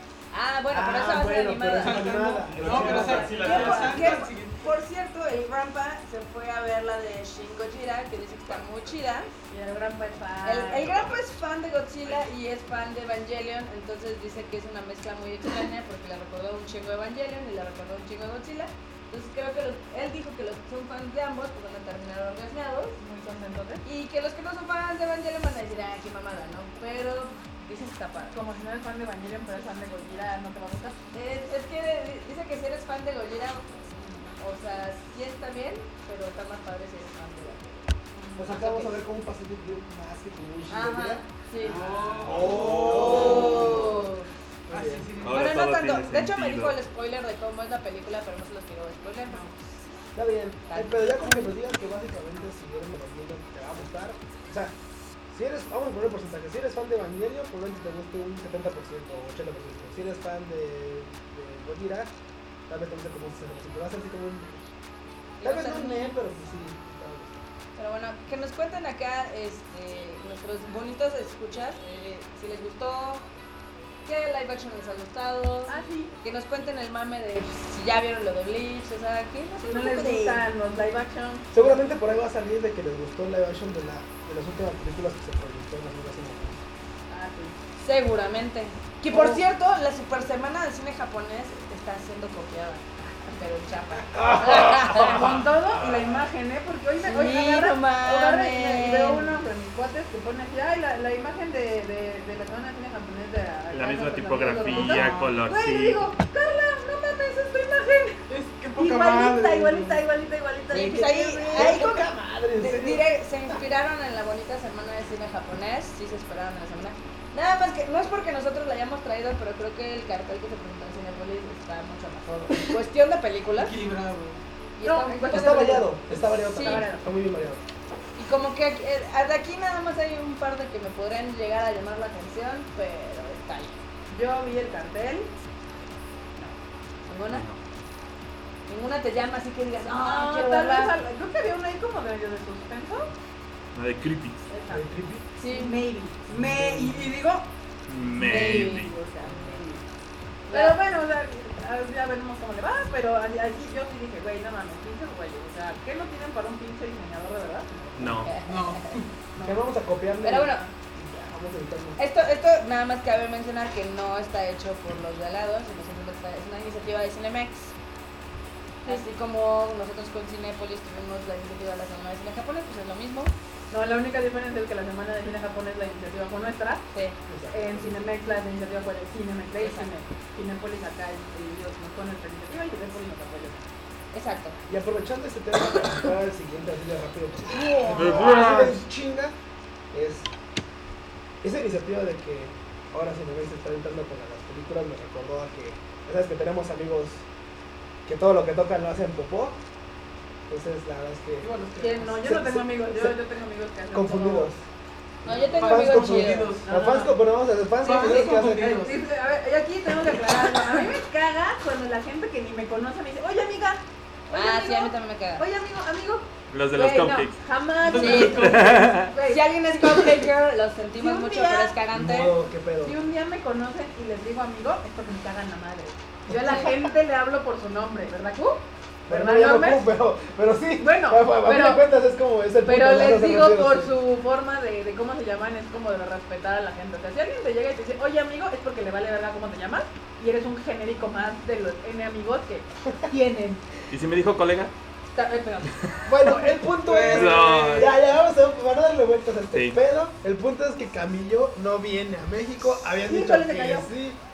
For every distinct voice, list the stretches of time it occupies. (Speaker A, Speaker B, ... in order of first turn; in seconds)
Speaker A: 0.3-2.2, 2.9-9.3, 10.4-23.0, 23.8-28.4, 31.1-33.8, 34.4-37.8, 38.4-38.9, 40.7-41.8, 42.8-44.3, 45.3-49.6, 50.7-51.5, 65.4-66.1, 67.8-73.2, 74.0-80.5, 87.8-95.3, 97.0-99.3, 110.7-123.7, 124.8-125.8, 126.5-126.8, 128.2-133.8, 137.1-137.5, 138.7-140.9, 145.4-145.8, 148.2-149.6, 150.5-150.8, 158.2-159.0, 160.2-160.7, 162.0-167.7, 168.8-173.3, 179.6-179.9, 184.1-184.6, 205.2-206.6, 214.3-215.4, 217.9-222.3, 226.4-226.7
Speaker B: 0.7-3.6, 38.4-44.1, 44.7-45.1, 50.1-54.7, 55.3-62.1, 62.7-64.6, 65.4-67.3, 81.5-86.6, 94.1-96.0, 111.5-113.6, 125.3-127.6, 144.7-145.2, 146.3-147.1, 159.4-162.0, 177.3-178.1, 184.7-189.3, 189.9-190.3, 191.4-197.2, 198.1-199.6, 200.5-203.2, 203.9-204.6, 205.2-208.9, 221.9-223.0, 226.3-226.7, 229.1-233.9, 246.1-254.2
Speaker C: 1.8-4.7, 41.6-43.7, 44.7-45.5, 104.6-105.4, 108.3-110.0, 123.5-124.4, 158.4-159.1, 201.4-202.2, 205.5-206.7, 207.8-209.0, 217.8-218.6, 246.7-248.0
Speaker D: 2.5-4.2, 42.2-43.6, 45.2-46.8, 103.7-106.1, 137.3-137.6, 143.7-144.4, 147.9-148.9, 157.9-158.4, 187.9-188.8, 216.5-217.3, 218.3-219.1, 243.9-244.7, 247.0-247.9, 249.5-249.8
Speaker E: 9.5-11.0, 23.0-23.8, 28.3-30.9, 38.1-38.5, 75.7-76.1, 79.6-81.8, 87.1-87.6, 89.1-89.4, 94.4-111.8, 124.8-127.0, 134.1-135.3, 139.9-143.1, 144.5-144.8, 145.5-147.5, 148.3-149.8, 150.5-158.2, 159.3-159.7, 160.3-160.7, 173.7-176.8, 177.5-183.6, 201.8-204.5, 206.6-207.1, 207.8-220.3, 221.0-221.7, 222.8-229.8, 230.8-231.8, 232.6-243.6, 245.1-246.3, 252.9-253.9